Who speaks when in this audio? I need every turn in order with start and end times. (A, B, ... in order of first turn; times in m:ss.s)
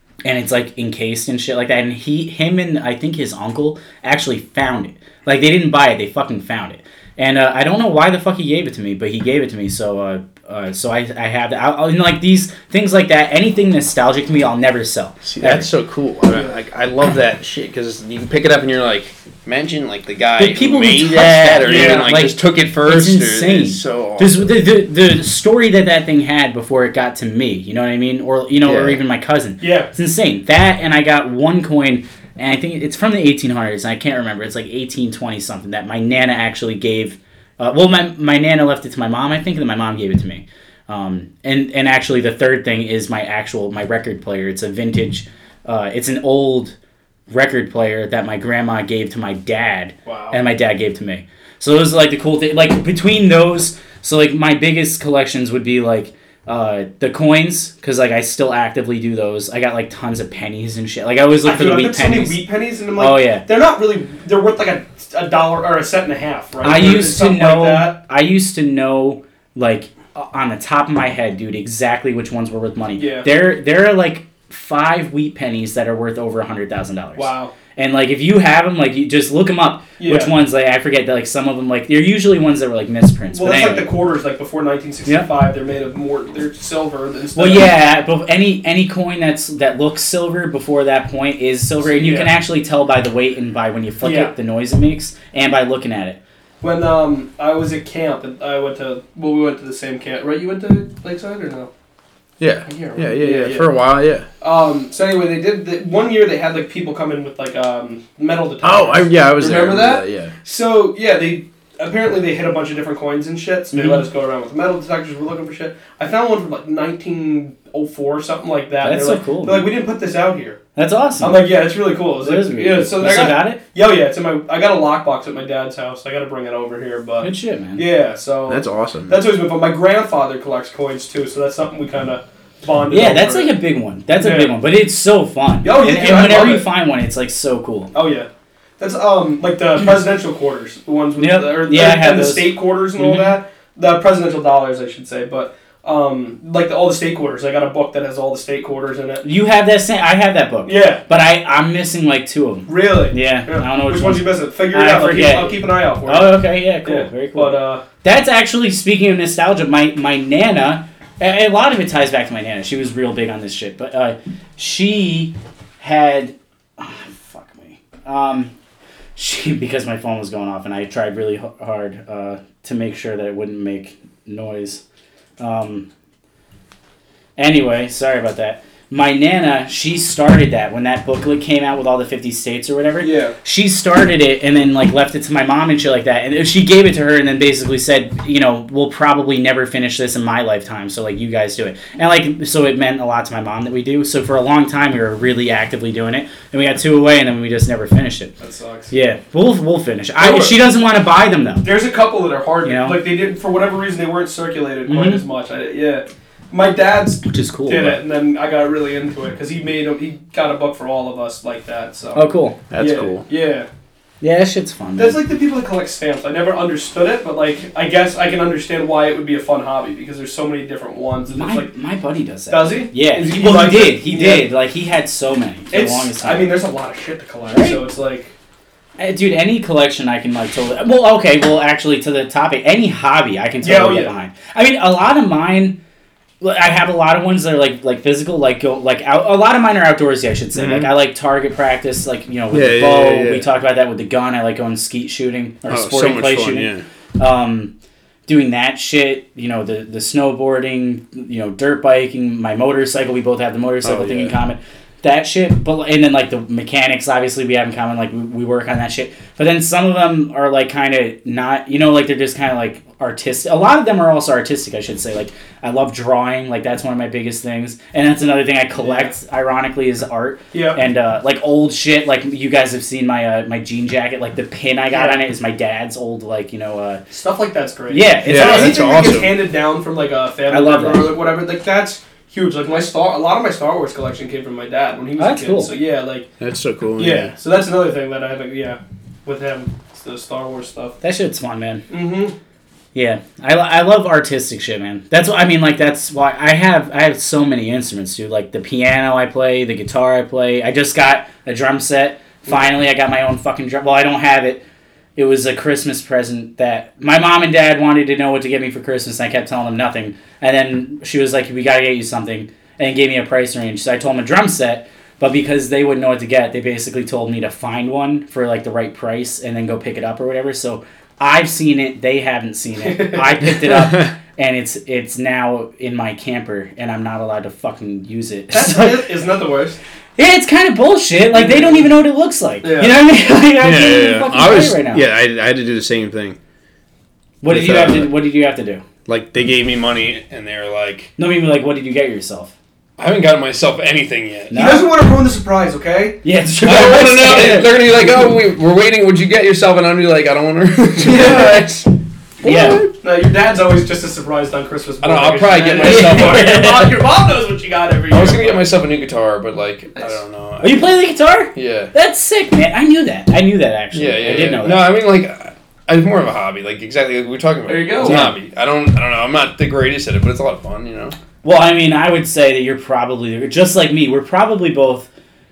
0:00.2-0:15.7 A
0:15.2-0:24.6 B
0:20.4-0:46.8 A
0:21.6-0:22.1 C
0:28.6-0:29.0 B
0:29.6-0:29.9 C
0:47.3-1:02.4 A
0:50.1-0:50.4 C
1:01.4-1:08.0 C
1:03.0-1:03.4 A
1:06.6-1:23.9 A
1:13.0-1:13.3 C
1:17.2-1:17.5 C
1:20.0-1:20.3 C
1:23.3-1:27.8 C
1:27.4-1:36.2 A
1:31.8-1:32.3 C
1:34.0-1:34.3 C
1:36.6-1:41.7 C
1:42.4-1:44.3 B
1:42.7-1:43.7 C
1:44.4-2:00.6 C
1:48.6-1:50.3 B
1:53.7-1:54.0 A
1:58.8-1:59.7 A
2:00.8-2:01.4 A
2:01.2-2:13.5 C
2:02.2-2:03.6 A
2:07.2-2:07.8 A
2:08.5-2:09.2 B
2:12.9-2:17.9 A
2:14.2-2:14.5 C
2:15.6-2:16.7 C
2:17.9-2:18.3 C
2:18.8-2:29.2 C
2:21.2-2:23.4 A
2:29.2-2:48.5 A
2:30.6-2:31.0 C
2:32.7-2:37.8 C
2:49.2-2:54.8 A
2:55.4-2:55.9 A
2:57.4-3:18.3 A
3:03.0-3:03.4 C
3:18.4-3:18.9 C
3:18.9-3:21.7 A
3:20.2-3:20.6 C
3:21.6-3:32.2 C
3:22.6-3:23.0 A
3:24.9-3:25.2 A
3:27.2-3:28.0 A
3:32.2-3:32.6 A
3:32.7-3:33.3 B
3:32.8-3:33.7 C
3:34.2-3:35.2 A
3:35.0-3:41.7 C
3:41.3-3:46.5 A
3:42.5-3:44.5 C
3:45.7-3:48.3 C
3:47.5-3:47.8 A
3:49.0-3:55.8 A
3:53.6-3:54.1 C
3:56.4-4:07.7 A
4:00.6-4:00.9 B
4:02.5-4:03.5 B
4:05.7-4:06.8 B
4:08.3-4:37.0 A
4:13.8-4:14.4 B
4:28.8-4:29.1 C
4:30.5-4:30.8 C
4:34.9-4:35.2 C
4:37.1-4:46.3 C
4:37.9-4:38.8 A
4:38.3-4:39.3 B
4:40.5-4:41.1 A
4:45.2-4:45.7 A
4:46.4-4:47.3 B
4:47.0-4:51.0 C
4:51.0-4:51.8 A
4:51.9-4:52.4 C
4:52.9-5:04.6 A
5:05.2-5:29.0 A
5:22.8-5:23.3 C
5:23.7-5:24.1 B
5:28.5-5:29.8 C
5:30.2-5:35.1 A
5:31.3-5:32.0 C
5:32.6-5:33.0 C
5:33.6-5:36.4 B
5:37.4-5:38.8 A
5:37.5-5:38.1 B
5:39.1-5:41.1 B
5:41.2-5:42.5 A
5:43.0-5:44.7 B
5:44.5-5:44.9 A
5:44.5-5:46.2 C
5:46.2-5:47.8 A
5:46.6-5:51.9 B
5:51.1-5:51.6 C
5:52.4-5:52.9 B
5:52.4-5:52.9 A
5:53.0-5:58.7 C
5:55.0-5:56.6 B
5:55.8-5:57.0 A
5:58.1-6:00.8 B
6:00.6-6:04.9 A
6:01.6-6:01.9 B
6:03.9-6:11.2 B
6:07.7-6:08.3 C
6:08.0-6:08.3 A
6:11.4-6:15.1 A